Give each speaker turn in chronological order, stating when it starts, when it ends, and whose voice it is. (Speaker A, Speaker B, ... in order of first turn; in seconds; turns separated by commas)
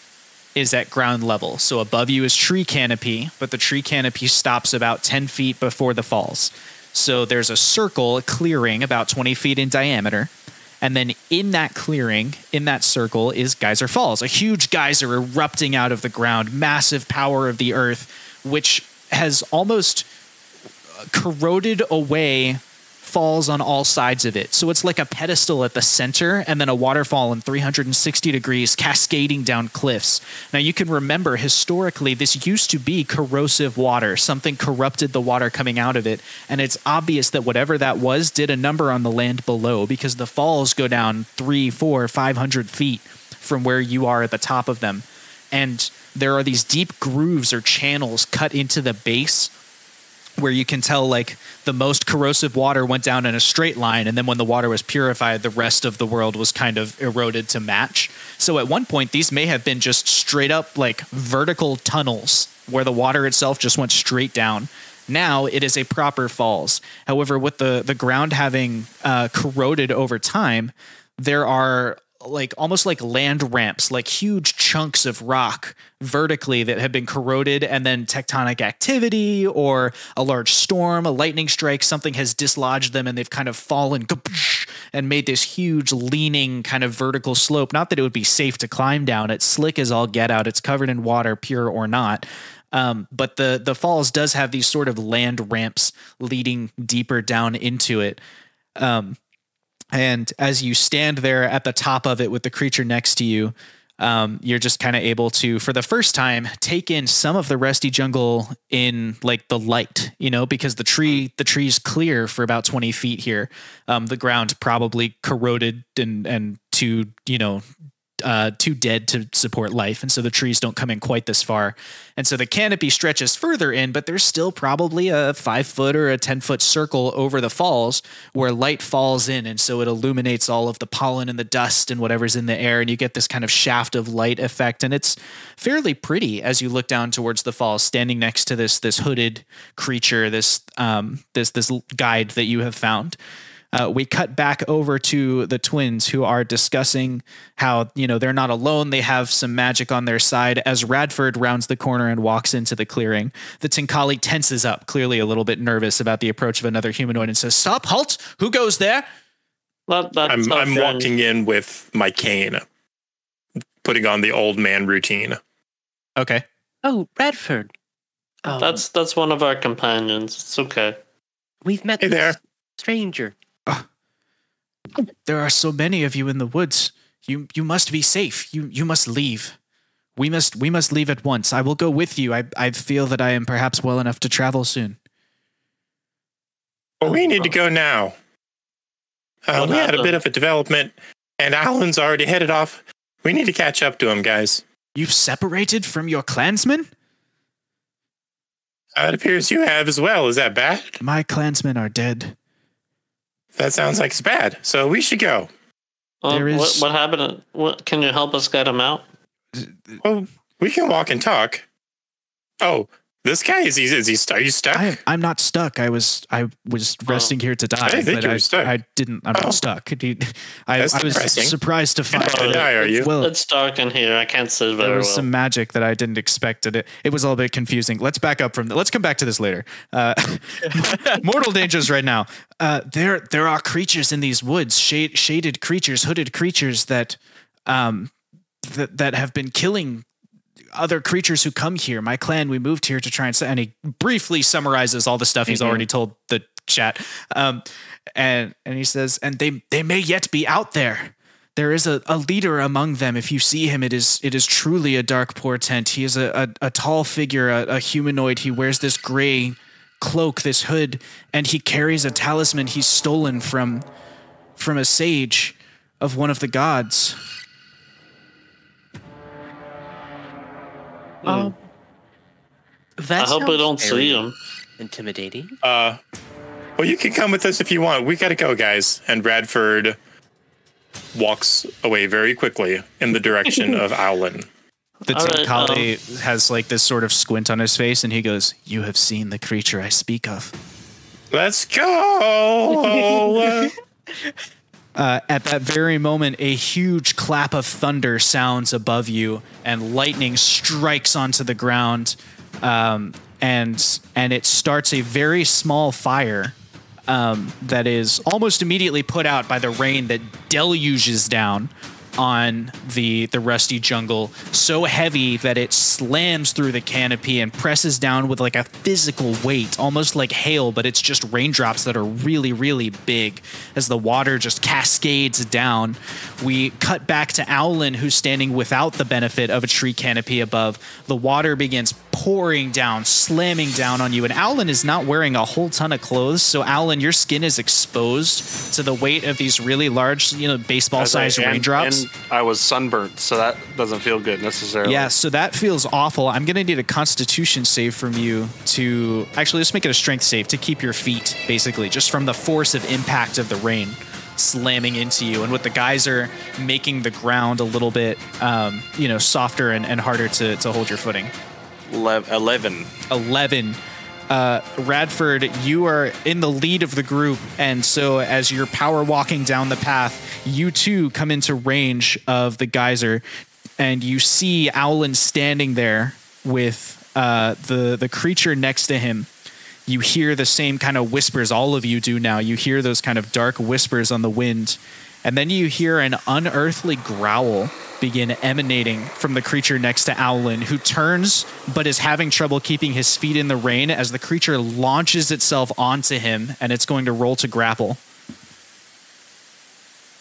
Speaker A: 0.6-20.1, Speaker A: 21.0-49.5, Speaker A: 50.4-98.2, Speaker A: 98.8-99.2, Speaker A: 99.9-117.6, Speaker A: 118.2-143.2, Speaker A: 143.7-159.1, Speaker B: 159.9-161.1, Speaker C: 160.3-162.7, Speaker C: 163.8-165.4, Speaker A: 166.2-166.4, Speaker D: 166.8-167.7, Speaker D: 168.4-168.8, Speaker B: 168.5-171.0, Speaker D: 171.6-173.3, Speaker C: 172.0-172.4, Speaker A: 175.3-179.6, Speaker A: 180.2-185.0, Speaker C: 187.0-188.2, Speaker C: 189.5-194.6, Speaker B: 189.6-190.2, Speaker A: 195.0-196.9, Speaker C: 198.9-201.0, Speaker A: 201.0-202.3, Speaker C: 203.6-205.5, Speaker B: 206.2-209.1, Speaker A: 206.3-206.9, Speaker A: 209.5-210.0, Speaker C: 210.0-211.6, Speaker C: 212.6-215.0, Speaker A: 214.7-223.3, Speaker C: 217.8-218.7, Speaker C: 219.3-219.6, Speaker C: 220.8-221.6, Speaker C: 222.1-223.1, Speaker B: 222.2-225.3, Speaker A: 224.8-238.1, Speaker A: 238.6-240.1, Speaker A: 240.7-247.6, Speaker A: 248.2-263.9, Speaker A: 264.6-267.2, Speaker B: 271.2-271.5, Speaker D: 271.3-271.6, Speaker D: 273.0-274.2, Speaker B: 273.2-274.4, Speaker D: 274.8-275.6, Speaker C: 275.6-276.0, Speaker C: 276.8-280.0, Speaker C: 281.1-284.5, Speaker B: 283.5-283.8, Speaker A: 285.1-290.5, Speaker B: 285.1-285.9, Speaker C: 291.3-293.7, Speaker A: 295.0-306.6, Speaker A: 307.1-342.1, Speaker E: 341.0-345.1, Speaker A: 344.8-361.3, Speaker E: 361.9-362.9, Speaker A: 363.1-373.2, Speaker A: 373.8-379.3, Speaker A: 379.9-398.0